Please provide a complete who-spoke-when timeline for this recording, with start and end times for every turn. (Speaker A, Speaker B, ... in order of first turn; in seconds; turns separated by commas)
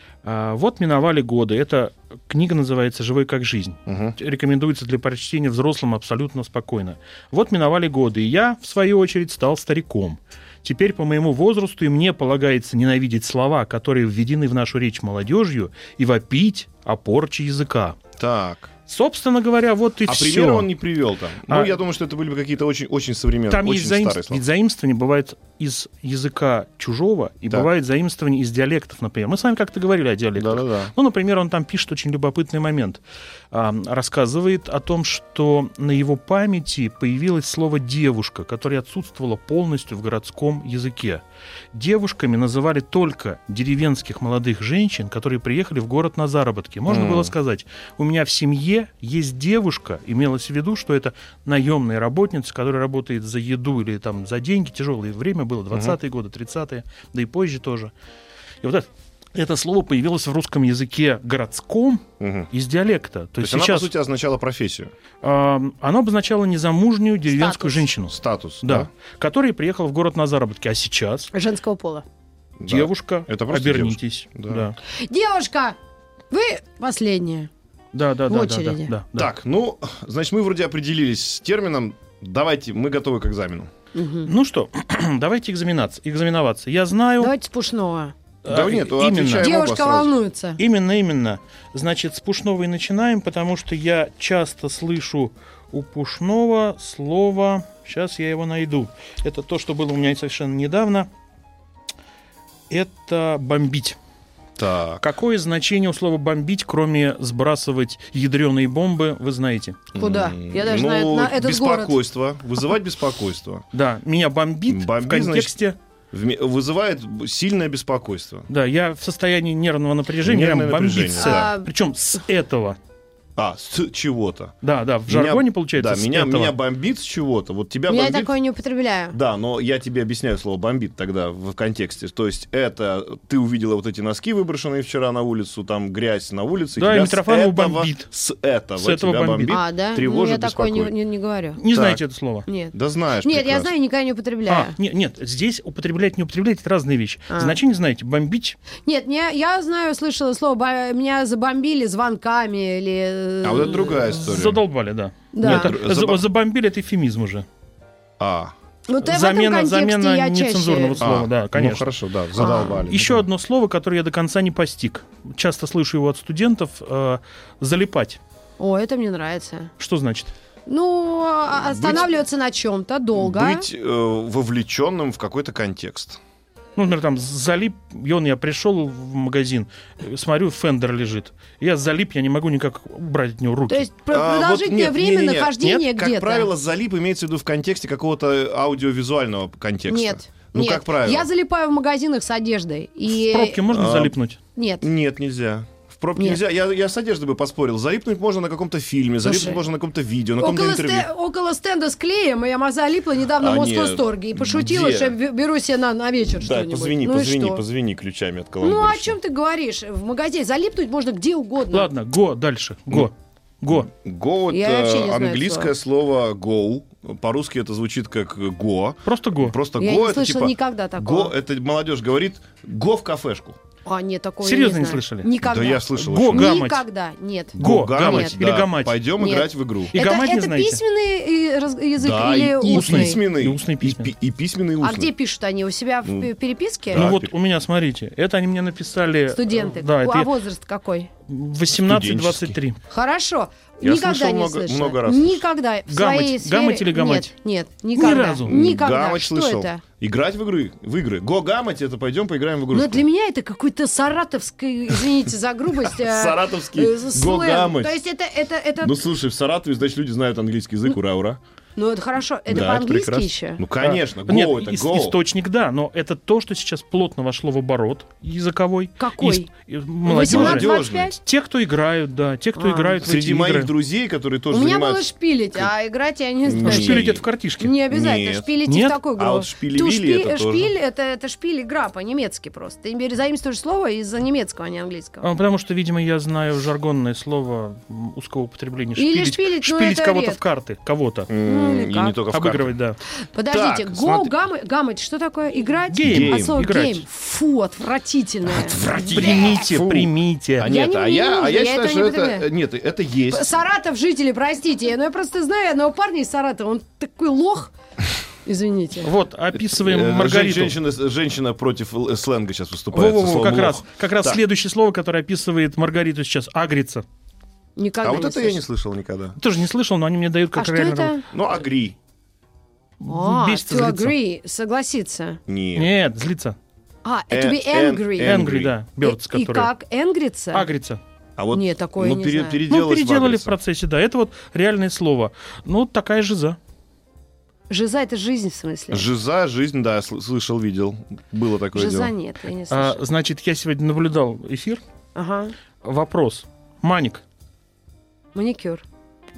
Speaker A: 0.2-18.0, Speaker B: 3.9-4.2, Speaker B: 18.2-18.7, Speaker A: 18.9-20.7, Speaker B: 20.1-24.4, Speaker A: 21.5-21.7, Speaker A: 23.5-57.9, Speaker B: 30.4-30.9, Speaker B: 46.9-47.3, Speaker B: 55.7-56.0, Speaker A: 58.6-63.9, Speaker B: 62.2-62.5, Speaker B: 63.4-64.9, Speaker A: 65.2-71.3, Speaker C: 67.3-67.9, Speaker B: 68.1-68.9, Speaker C: 71.3-72.0, Speaker B: 72.6-74.7, Speaker A: 72.7-74.8, Speaker C: 74.9-75.8, Speaker C: 76.3-77.5, Speaker A: 77.9-79.3, Speaker C: 78.3-78.9, Speaker B: 79.2-83.7, Speaker C: 83.9-84.3, Speaker A: 84.2-87.3, Speaker C: 87.2-88.1, Speaker A: 88.5-89.5, Speaker B: 88.5-90.1, Speaker C: 89.3-90.6, Speaker A: 90.6-101.1, Speaker A: 102.7-104.0, Speaker B: 104.6-105.1, Speaker A: 105.0-109.9, Speaker B: 109.9-113.6, Speaker C: 110.0-112.0, Speaker A: 113.7-115.8, Speaker B: 114.7-115.6, Speaker B: 116.1-118.5, Speaker A: 118.5-122.8, Speaker B: 120.2-121.5, Speaker C: 121.2-121.7, Speaker B: 123.4-124.6, Speaker A: 124.6-126.5, Speaker B: 125.1-128.3, Speaker C: 127.9-129.2, Speaker B: 129.1-140.9, Speaker A: 136.8-138.1, Speaker A: 138.8-139.6, Speaker C: 139.5-141.6, Speaker A: 141.6-142.5, Speaker B: 141.7-142.0, Speaker C: 142.5-144.8, Speaker B: 142.7-143.7, Speaker A: 144.5-148.6, Speaker C: 147.3-147.6, Speaker C: 148.8-154.1, Speaker B: 153.4-154.6, Speaker A: 154.1-157.5, Speaker C: 155.3-155.7, Speaker B: 155.4-156.2, Speaker B: 158.2-158.5, Speaker C: 158.9-161.0, Speaker A: 159.0-161.9, Speaker B: 161.0-163.3, Speaker C: 162.4-162.8, Speaker A: 162.4-168.2, Speaker C: 168.6-169.7, Speaker A: 169.8-170.3, Speaker C: 170.7-173.7, Speaker B: 171.5-172.1, Speaker B: 173.2-176.2, Speaker A: 176.8-183.9, Speaker C: 183.7-186.5, Speaker B: 184.1-191.3, Speaker C: 189.9-193.7, Speaker A: 193.1-194.4, Speaker B: 193.7-194.2, Speaker C: 194.6-194.9, Speaker B: 194.8-201.1, Speaker C: 199.2-199.6, Speaker C: 200.4-207.6, Speaker B: 203.4-205.2, Speaker B: 206.4-209.2, Speaker C: 208.6-211.9, Speaker A: 211.7-213.9, Speaker B: 213.7-223.6, Speaker C: 214.5-215.7, Speaker A: 219.1-219.6, Speaker C: 219.8-221.3, Speaker C: 223.8-228.4, Speaker A: 224.4-225.3, Speaker B: 225.4-226.6, Speaker A: 225.9-226.8, Speaker B: 227.6-229.9, Speaker A: 227.6-229.0, Speaker C: 229.2-233.2, Speaker A: 229.9-230.8, Speaker B: 232.0-235.1, Speaker A: 232.6-234.1, Speaker C: 234.8-237.1, Speaker B: 236.0-236.3, Speaker B: 236.9-237.3, Speaker A: 236.9-240.3, Speaker C: 239.3-241.1, Speaker A: 241.3-242.8, Speaker B: 241.7-242.6, Speaker C: 242.9-249.8, Speaker B: 243.8-245.4, Speaker A: 245.9-247.3, Speaker A: 247.9-248.6, Speaker B: 248.4-253.1, Speaker C: 252.7-259.0, Speaker B: 255.9-257.9, Speaker B: 258.8-261.4, Speaker C: 261.8-263.6, Speaker B: 262.5-265.2, Speaker A: 263.8-273.7, Speaker C: 269.0-269.5, Speaker C: 270.1-271.2, Speaker B: 270.2-271.1, Speaker C: 272.6-273.0, Speaker B: 273.0-275.7, Speaker C: 274.5-285.3, Speaker B: 276.4-277.2, Speaker A: 276.6-277.7, Speaker B: 277.9-278.6, Speaker A: 278.6-279.0, Speaker B: 279.1-280.7, Speaker A: 285.2-291.3, Speaker C: 289.0-290.4, Speaker B: 291.3-292.7, Speaker C: 291.4-292.1, Speaker A: 292.3-293.0, Speaker C: 293.3-299.6, Speaker B: 293.5-294.4, Speaker A: 295.9-297.1, Speaker B: 296.0-296.6, Speaker B: 298.4-303.5, Speaker A: 299.1-300.7, Speaker C: 300.6-302.5, Speaker C: 303.3-307.7, Speaker C: 308.4-309.1, Speaker A: 309.0-310.8, Speaker B: 309.5-314.4, Speaker A: 312.9-317.1, Speaker C: 317.8-318.6, Speaker B: 318.0-319.4, Speaker A: 319.4-321.1, Speaker C: 320.6-321.3, Speaker B: 321.3-322.0, Speaker A: 323.0-324.1, Speaker C: 323.1-325.4, Speaker B: 325.5-325.9, Speaker A: 325.8-326.6, Speaker C: 327.0-328.4, Speaker B: 327.3-328.7, Speaker A: 328.2-329.7, Speaker C: 329.0-330.7, Speaker A: 330.5-331.0, Speaker B: 331.4-333.5, Speaker C: 331.5-332.6, Speaker A: 332.7-336.6, Speaker C: 337.7-339.1, Speaker B: 338.9-342.1, Speaker C: 341.7-343.0, Speaker A: 342.7-344.8, Speaker C: 345.1-345.6, Speaker A: 345.8-347.2, Speaker C: 348.3-348.8